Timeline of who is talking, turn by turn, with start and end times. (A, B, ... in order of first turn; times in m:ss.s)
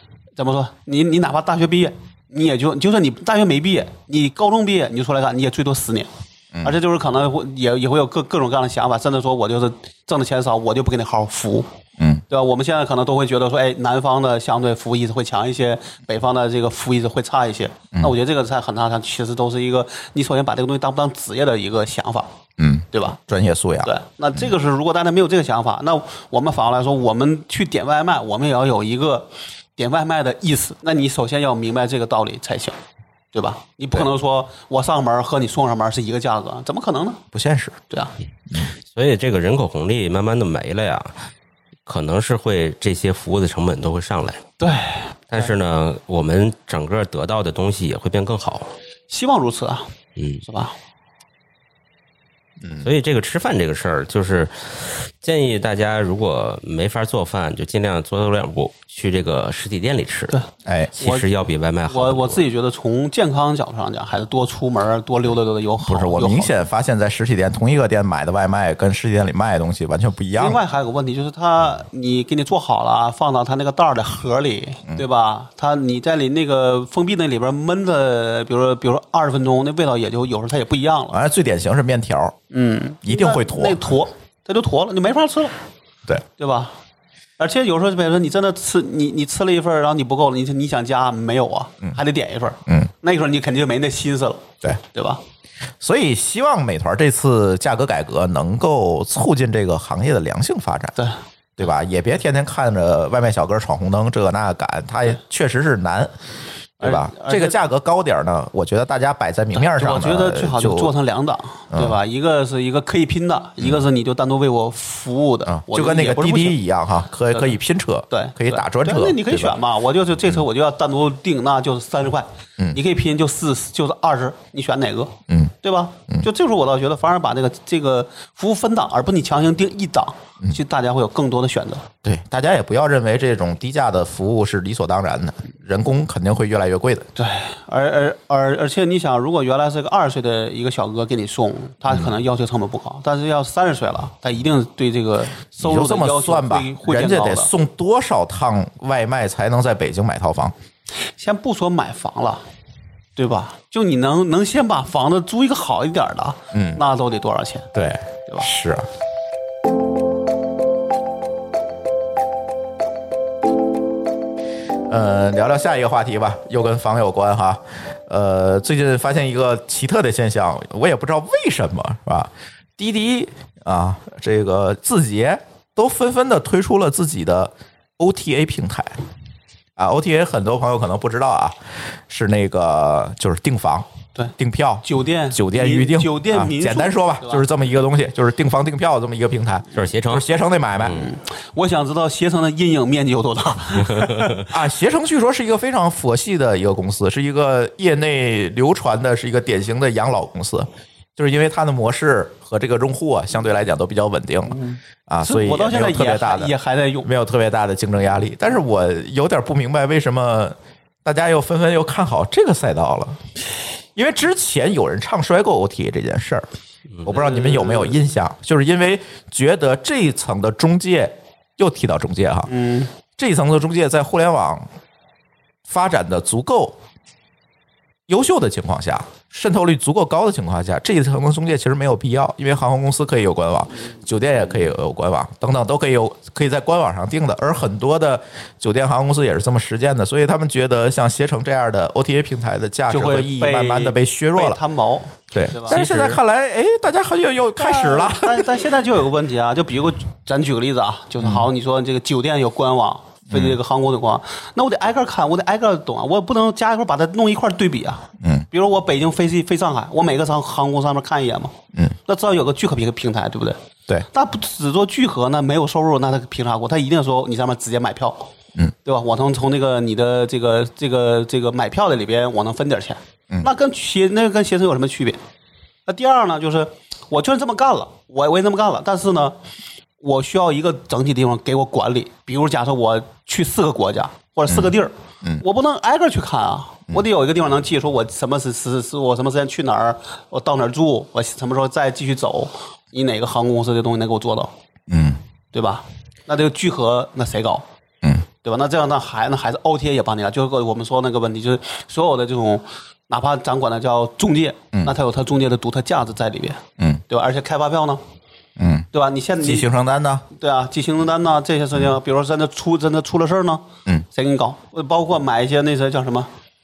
0:00.4-0:06.1 A
0:06.6-0:11.7 A
0:12.0-0:12.2 B
0:12.3-0:22.3 A
0:22.6-0:23.9 B
0:22.9-0:23.2 A
0:23.8-0:32.8 A
0:33.3-0:37.2 A
0:37.3-0:37.8 B
0:38.9-0:41.1 C
0:41.9-0:44.4 C
0:44.6-0:45.5 A
0:45.3-0:48.7 C
0:49.1-0:49.9 A
0:50.2-0:50.4 C
0:50.4-0:50.7 A
0:52.8-1:00.4 C
1:00.6-1:01.0 B
1:01.0-1:02.4 C
1:01.0-1:01.3 A
1:01.9-1:06.5 A
1:05.8-1:10.6 B
1:10.4-1:21.2 A
1:21.1-1:22.4 B
1:22.5-1:25.6 A
1:23.0-1:23.9 B
1:26.4-1:26.7 A
1:27.4-1:35.2 A
1:35.8-1:41.0 B
1:41.6-1:46.1 B
1:46.8-1:50.9 B
1:46.8-1:47.6 A
1:49.6-1:56.6 A
1:51.7-1:52.0 B
1:55.5-1:59.6 B
1:58.1-2:11.9 A
2:12.0-2:17.1 B
2:17.2-2:27.5 A
2:25.6-2:30.5 B
2:31.2-2:32.4 A
2:33.2-2:37.7 A
2:36.5-2:36.8 B
2:37.7-2:38.9 B
2:44.9-2:59.0 B
2:59.8-3:01.6 B
3:02.1-3:11.1 B
3:04.8-3:07.5 A
3:09.7-3:10.2 C
3:10.8-3:14.5 A
3:13.9-3:14.4 C
3:14.5-3:33.2 B
3:24.5-3:27.1 A
3:34.0-3:36.5 B
3:37.0-3:42.5 B
3:37.1-3:38.0 A
3:42.5-3:42.9 A
3:43.2-3:44.7 B
3:45.7-3:46.8 B
3:48.1-4:04.6 B
4:02.9-4:05.8 A
4:05.3-4:08.7 B
4:05.7-4:06.2 C
4:07.6-4:28.3 A
4:11.2-4:11.5 B
4:13.3-4:13.6 B
4:18.2-4:18.5 B
4:28.8-4:35.2 A
4:35.9-4:39.4 A
4:40.0-4:54.5 A
4:54.9-4:55.2 B
4:55.5-4:57.6 A
4:58.4-5:08.0 A
5:08.6-5:08.9 B
5:08.9-5:09.7 A
5:09.4-5:10.2 B
5:10.3-5:16.3 A